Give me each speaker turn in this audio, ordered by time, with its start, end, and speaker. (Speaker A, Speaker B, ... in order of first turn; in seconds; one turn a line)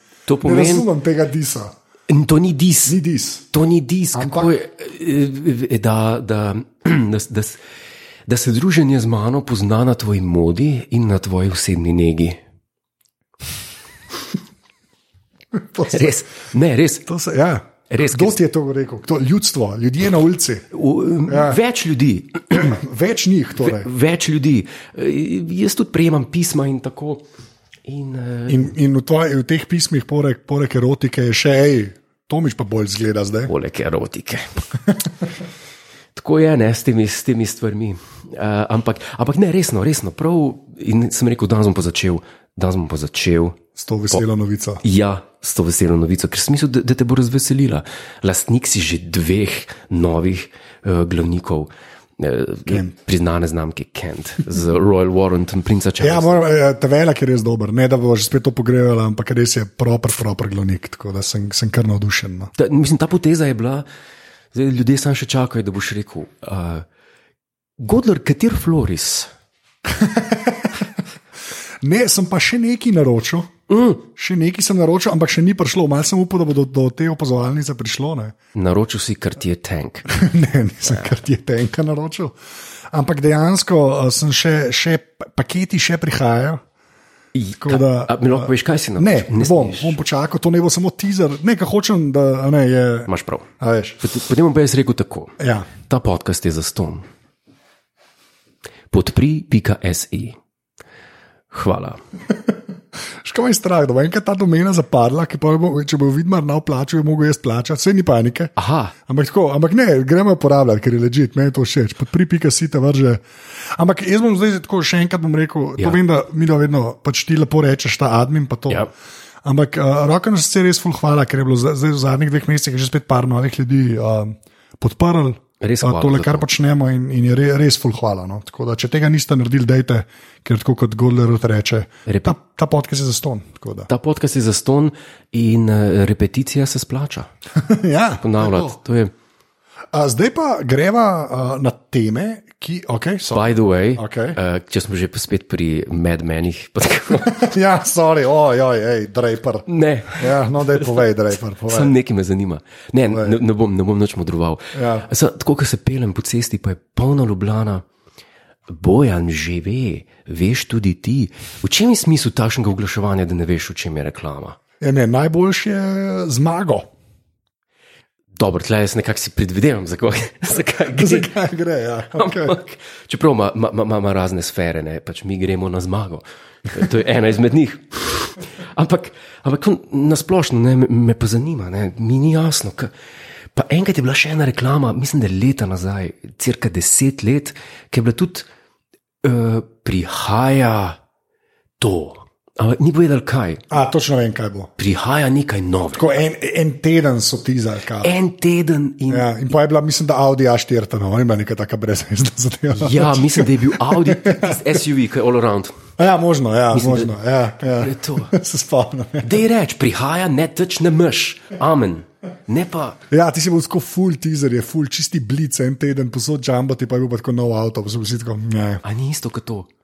Speaker A: 0.3-0.9
Speaker B: 0.4-1.7
Speaker A: 2.1-3.0
Speaker B: 2.9-3.5
Speaker A: 3.5-7.6
Speaker B: 4.1-4.5
Speaker A: 8.3-12.4
Speaker B: 15.5-16.1
Speaker A: 15.9-17.1
Speaker B: 17.1-20.6
Speaker A: 17.9-18.4
Speaker A: 20.7-22.8
Speaker B: 21.3-21.6
Speaker B: 22.5-23.9
Speaker A: 23.6-27.2
Speaker A: 27.8-28.7
Speaker B: 28.5-33.5
Speaker A: 33.5-34.4
Speaker A: 36.1-43.6
Speaker B: 43.8-44.8
Speaker A: 44.8-56.4
Speaker B: 56.0-62.5
Speaker A: 62.5-63.9
Speaker A: 64.5-66.8
Speaker A: 67.8-69.3
Speaker B: 69.8-71.0
Speaker B: 71.8-73.5
Speaker A: 73.7-74.0
Speaker B: 74.1-78.3
Speaker A: 78.5-80.1
Speaker B: 80.1-82.3
Speaker B: 82.9-86.6
Speaker A: 87.3-90.0
Speaker B: 87.6-93.1
Speaker A: 93.1-93.5
Speaker B: 93.6-94.0
Speaker A: 94.0-97.1
Speaker B: 95.4-95.7
Speaker A: 98.9-100.4
Speaker A: 101.5-102.0
Speaker B: 103.2-108.5
Speaker A: 108.5-108.9
Speaker B: 109.1-113.2
Speaker B: 113.7-118.9
Speaker B: 119.4-133.9
Speaker A: 125.6-126.5
Speaker A: 132.1-132.3
Speaker A: 133.9-137.3
Speaker B: 137.6-138.8
Speaker A: 138.2-139.1
Speaker B: 139.9-144.4
Speaker A: 143.3-147.5
Speaker B: 147.2-149.6
Speaker A: 149.7-151.0
Speaker B: 150.2-151.9
Speaker A: 151.7-157.8
Speaker B: 153.1-153.4
Speaker B: 154.7-155.1
Speaker A: 158.7-164.6
Speaker B: 164.8-166.9
Speaker A: 168.3-171.3
Speaker B: 170.5-172.6
Speaker A: 172.2-182.9
Speaker A: 183.5-188.5
Speaker A: 189.2-191.0
Speaker A: 191.8-193.6
Speaker B: 193.7-194.7
Speaker A: 194.8-196.1
Speaker B: 195.9-198.1
Speaker A: 198.0-199.3
Speaker B: 199.1-204.8
Speaker A: 202.8-205.7
Speaker B: 206.0-209.4
Speaker A: 206.7-207.2
Speaker A: 207.7-208.3
Speaker A: 209.2-213.0
Speaker B: 213.1-218.8
Speaker A: 218.8-219.7